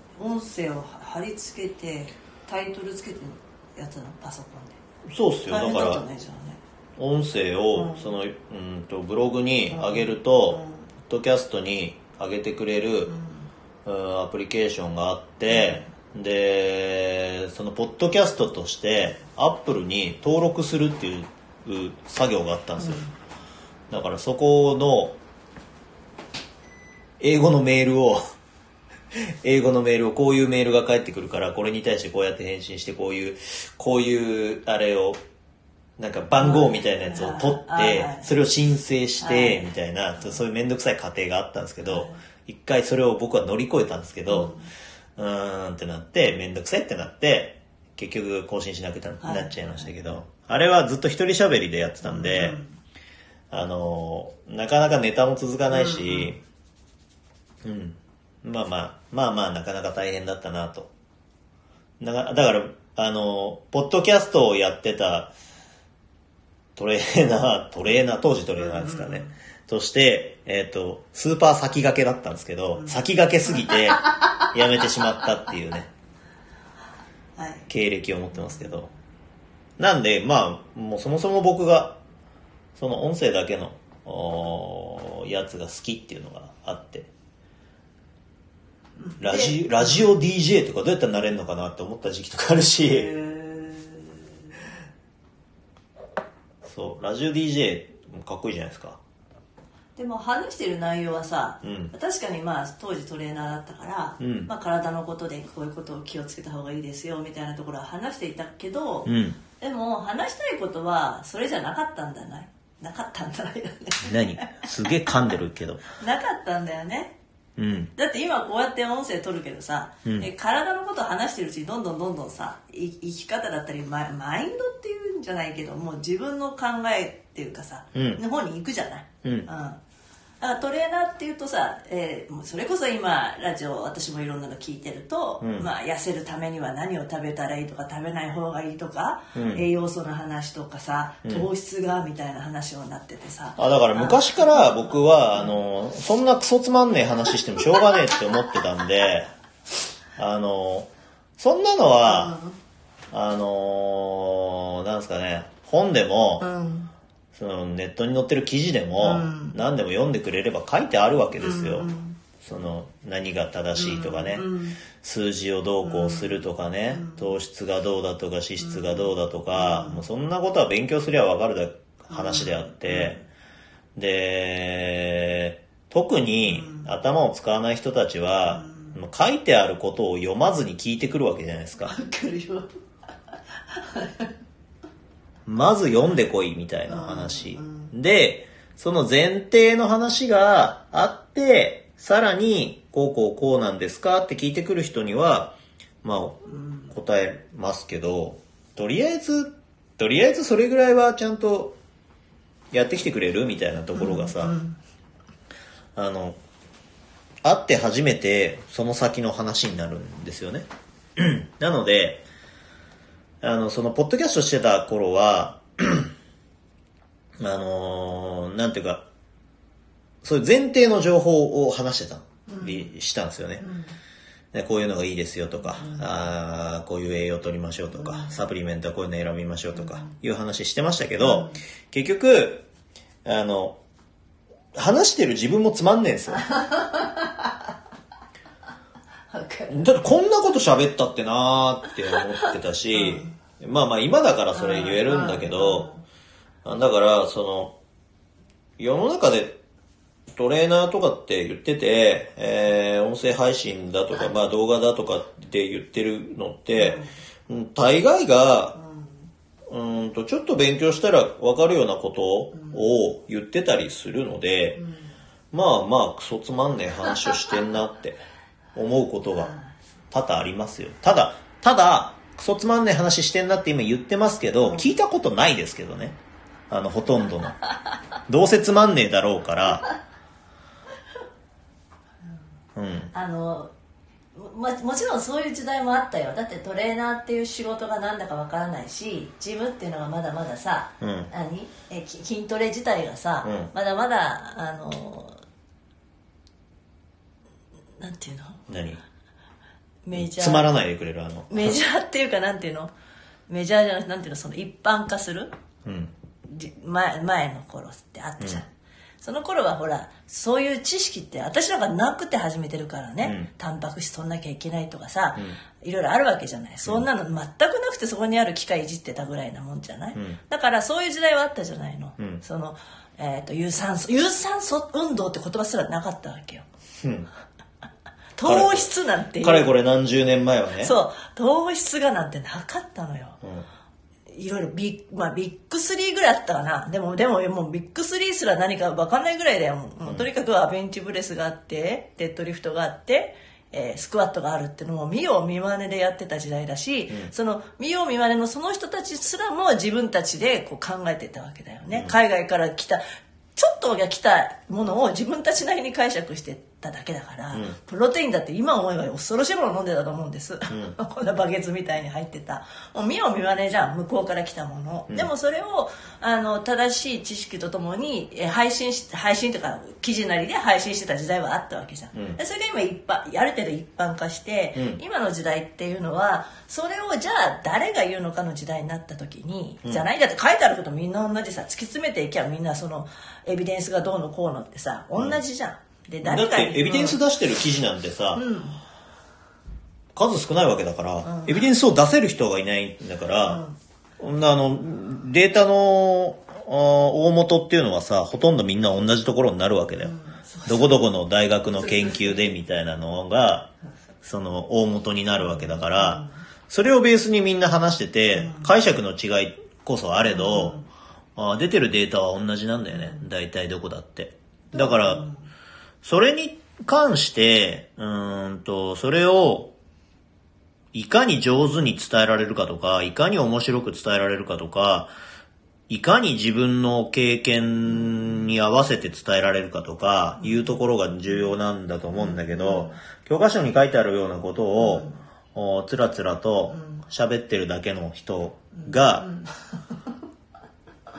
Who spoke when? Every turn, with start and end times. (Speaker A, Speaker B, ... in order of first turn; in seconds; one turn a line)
Speaker A: 0.2-4.8
Speaker B: 5.1-6.0
Speaker A: 5.5-6.6
Speaker B: 7.0-13.1
Speaker A: 7.7-8.1
Speaker A: 9.7-10.8
Speaker A: 13.1-13.5
Speaker B: 13.9-23.1
Speaker A: 22.8-23.1
Speaker B: 23.9-25.2
Speaker B: 27.2-28.2
Speaker B: 29.1-35.2
Speaker B: 36.0-44.5
Speaker A: 36.4-38.3
Speaker A: 39.2-39.7
Speaker A: 41.9-42.2
Speaker A: 44.3-44.7
Speaker B: 45.2-52.6
Speaker A: 49.2-49.6
Speaker A: 52.0-52.7
Speaker B: 53.5-56.4
Speaker A: 55.7-56.3
Speaker B: 57.6-60.9
Speaker B: 62.0-65.3
Speaker B: 66.8-75.9
Speaker A: 68.7-69.3
Speaker A: 77.4-77.7
Speaker B: 77.7-78.9
Speaker B: 79.8-82.0
Speaker B: 82.8-87.1
Speaker A: 89.0-90.1
Speaker B: 89.2-93.1
Speaker A: 92.9-94.2
Speaker B: 96.6-99.0
Speaker A: 100.0-115.1
Speaker B: 101.6-101.9
Speaker B: 104.2-104.5
Speaker B: 109.1-109.4
Speaker B: 114.0-115.8
Speaker A: 116.0-117.2
Speaker B: 117.6-117.9
Speaker A: 118.0-129.8
Speaker B: 128.0-128.2
Speaker A: 130.4-144.9
Speaker B: 135.4-135.7
Speaker B: 139.3-139.6
Speaker B: 143.6-149.3
Speaker B: 150.2-152.4
Speaker A: 152.1-152.6
Speaker B: 153.1-156.5
Speaker A: 156.4-156.9
Speaker B: 157.3-161.9
Speaker A: 159.0-159.6
Speaker A: 161.4-162.2
Speaker B: 162.4-173.2
Speaker A: 163.8-164.8
Speaker A: 165.8-166.3
Speaker A: 166.9-167.2
Speaker A: 168.7-169.0
Speaker A: 169.5-170.0
Speaker A: 172.1-173.2
Speaker B: 174.0-182.0
Speaker A: 176.5-176.9
Speaker A: 178.6-178.9
Speaker A: 181.8-182.7
Speaker A: 183.7-184.3
Speaker B: 185.5-201.8
Speaker A: 186.9-187.9
Speaker A: 196.5-196.9
Speaker B: 202.7-204.6
Speaker A: 203.9-204.8
Speaker B: 206.0-206.4
Speaker B: 207.4-212.2
Speaker B: 213.4-216.1
Speaker B: 217.4-219.1
Speaker B: 220.2-223.7
Speaker A: 222.5-222.8
Speaker A: 223.6-223.9
Speaker B: 224.5-232.7
Speaker A: 228.1-228.3
Speaker A: 231.2-231.6
Speaker B: 233.2-233.8
Speaker B: 234.8-236.4
Speaker A: 236.3-237.6
Speaker A: 239.3-239.8
Speaker B: 239.7-245.9
Speaker A: 242.9-243.3
Speaker A: 244.5-246.0
Speaker B: 246.7-247.8
Speaker B: 248.8-249.6
Speaker B: 250.3-258.8
Speaker A: 256.8-257.1
Speaker B: 259.7-264.8
Speaker B: 265.5-268.2
Speaker B: 268.8-269.5
Speaker B: 270.1-276.2
Speaker B: 276.7-277.6
Speaker B: 278.3-279.9
Speaker B: 282.8-283.1
Speaker A: 283.1-283.7
Speaker A: 284.4-295.4
Speaker B: 291.0-291.3
Speaker B: 293.4-293.7
Speaker A: 298.0-298.6
Speaker B: 298.7-299.0
Speaker A: 300.0-300.7
Speaker B: 300.1-301.8
Speaker A: 301.5-302.9
Speaker A: 303.5-305.5
Speaker B: 305.9-306.1
Speaker A: 306.4-308.7
Speaker A: 309.2-326.7
Speaker B: 313.2-313.5
Speaker B: 327.0-327.3
Speaker A: 328.4-329.7
Speaker B: 328.4-328.9
Speaker B: 329.4-330.9
Speaker A: 330.8-333.4
Speaker A: 334.3-353.0
Speaker A: 353.6-387.2
Speaker B: 360.7-361.0
Speaker B: 372.1-372.4
Speaker B: 374.8-375.0
Speaker B: 386.2-388.4
Speaker A: 388.4-388.8
Speaker B: 390.1-393.6
Speaker A: 391.2-391.6
Speaker A: 393.5-393.8
Speaker B: 394.2-400.1
Speaker A: 400.0-401.0
Speaker B: 400.7-410.8
Speaker A: 401.8-402.4
Speaker A: 405.6-406.3
Speaker A: 408.4-408.7
Speaker A: 410.3-410.8
Speaker B: 411.4-415.2
Speaker A: 414.7-415.4
Speaker B: 416.0-419.7
Speaker B: 420.9-425.1
Speaker B: 425.9-439.3
Speaker A: 432.2-433.0
Speaker A: 434.8-435.2
Speaker A: 436.7-437.0
Speaker A: 438.8-439.6